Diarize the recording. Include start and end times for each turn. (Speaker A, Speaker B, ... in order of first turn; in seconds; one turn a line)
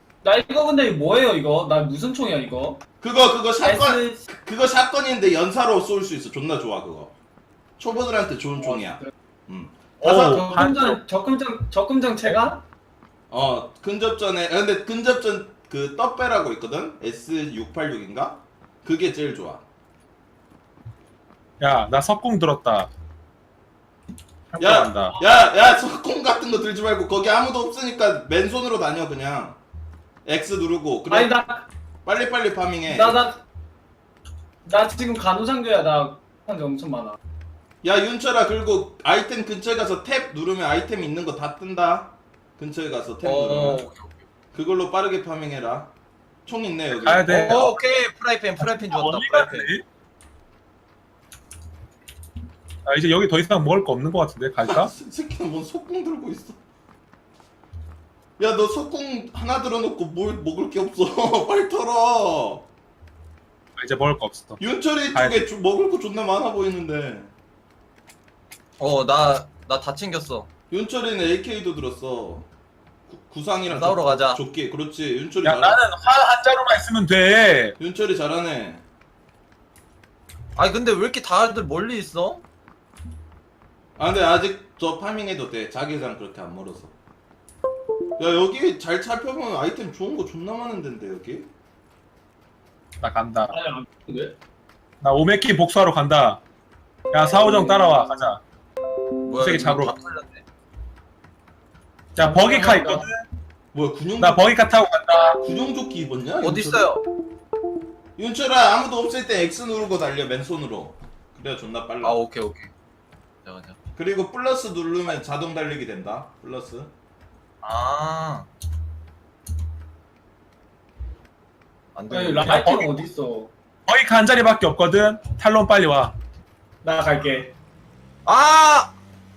Speaker A: 0.2-2.8
Speaker B: 3.0-7.1
Speaker A: 3.6-4.2
Speaker B: 7.8-10.4
Speaker A: 8.7-9.1
Speaker C: 10.0-11.0
Speaker A: 10.0-12.6
Speaker B: 13.3-19.6
Speaker C: 21.6-22.9
Speaker C: 24.5-25.2
Speaker B: 24.6-29.6
Speaker B: 30.2-31.4
Speaker A: 31.1-31.6
Speaker B: 32.1-33.2
Speaker A: 32.9-33.4
Speaker A: 34.6-37.2
Speaker B: 37.8-43.8
Speaker D: 43.2-44.2
Speaker B: 44.5-45.9
Speaker B: 46.5-47.6
Speaker C: 46.9-47.8
Speaker D: 47.3-49.7
Speaker C: 48.6-49.9
Speaker C: 52.9-54.9
Speaker B: 54.6-56.6
Speaker B: 58.4-62.7
Speaker C: 63.8-64.6
Speaker B: 64.6-67.3
Speaker C: 65.1-65.4
Speaker D: 68.8-70.5
Speaker B: 70.7-72.5
Speaker B: 73.1-75.8
Speaker D: 73.7-74.4
Speaker C: 75.4-77.8
Speaker B: 77.8-78.8
Speaker D: 80.6-82.4
Speaker B: 84.0-86.9
Speaker B: 88.2-91.5
Speaker C: 93.0-93.5
Speaker A: 93.5-94.3
Speaker C: 95.0-96.4
Speaker C: 97.1-98.4
Speaker D: 99.2-100.4
Speaker C: 99.4-99.9
Speaker C: 102.2-103.2
Speaker A: 102.2-103.1
Speaker B: 103.7-104.5
Speaker C: 104.2-105.4
Speaker B: 105.4-106.9
Speaker D: 106.4-107.0
Speaker B: 108.2-112.2
Speaker D: 112.0-112.7
Speaker D: 113.5-113.8
Speaker B: 114.0-116.9
Speaker D: 117.6-118.5
Speaker D: 122.0-122.8
Speaker A: 122.1-123.5
Speaker C: 122.4-123.1
Speaker C: 123.9-126.2
Speaker A: 126.8-127.5
Speaker D: 128.3-129.0